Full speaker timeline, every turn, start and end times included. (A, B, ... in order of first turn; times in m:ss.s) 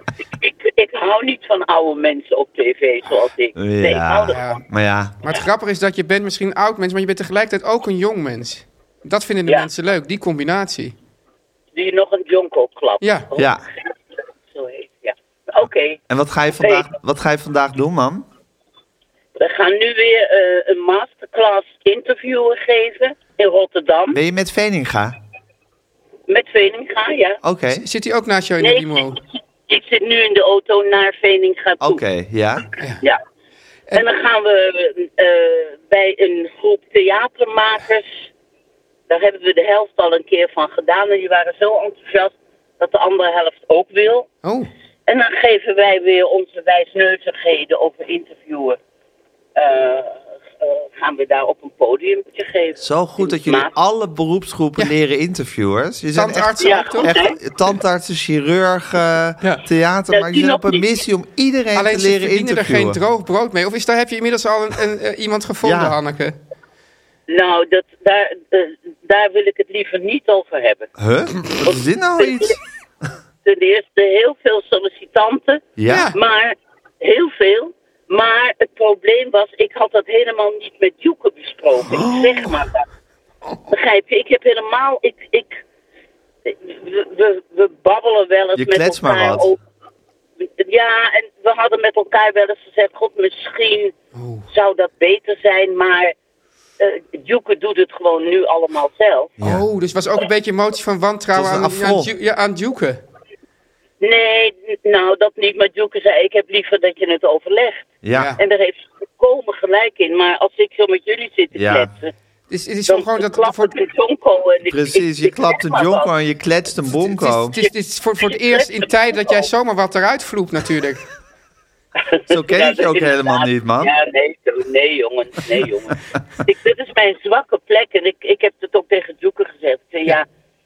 0:00.3-0:04.5 A
0:03.6-0:05.2 B
0:04.3-0:04.6 C
0:05.2-0:11.0 C
0:11.7-0:13.9 A
0:13.0-0:13.3 C
0:13.4-0:13.7 B
0:14.5-0:16.0 A
0:16.1-0:18.2 B
0:16.6-0:16.9 A
0:19.4-0:24.2 A
0:24.1-0:25.2 B
0:26.3-0:27.4 A
0:27.4-0:27.8 B
0:27.7-0:29.2 C
0:28.6-0:32.0 A
0:31.8-0:32.7 B
0:33.9-0:38.3 A
0:39.1-0:44.3 A
0:44.4-0:44.7 C
0:45.1-0:48.8 A
0:49.6-0:53.7 A
0:52.8-1:03.0 B
0:56.2-0:57.2 C
0:56.6-0:57.4 A
1:00.1-1:00.9 A
1:01.8-1:06.4 C
1:05.6-1:06.0 B
1:07.3-1:10.9 A
1:11.0-1:12.6 B
1:11.6-1:12.6 A
1:13.4-1:22.9 A
1:15.8-1:16.1 B
1:15.9-1:16.2 C
1:21.9-1:22.6 B
1:23.7-1:25.6 A
1:26.5-1:29.6 A
1:28.6-1:29.5 B
1:30.4-1:33.9 A
1:34.1-1:34.5 C
1:34.5-1:36.2 A
1:36.8-1:39.4 A
1:39.4-1:39.6 B
1:39.4-1:43.0 C
1:41.3-1:42.1 B
1:44.0-1:52.1 A
1:48.0-1:48.3 B
1:48.1-1:48.4 C
1:51.6-1:51.9 B
1:52.5-1:53.8 C
1:52.9-1:56.1 A
1:54.7-1:57.6 B
1:57.0-2:01.0 C
1:58.2-1:59.5 A
2:02.0-2:10.3 A
2:02.3-2:03.9 B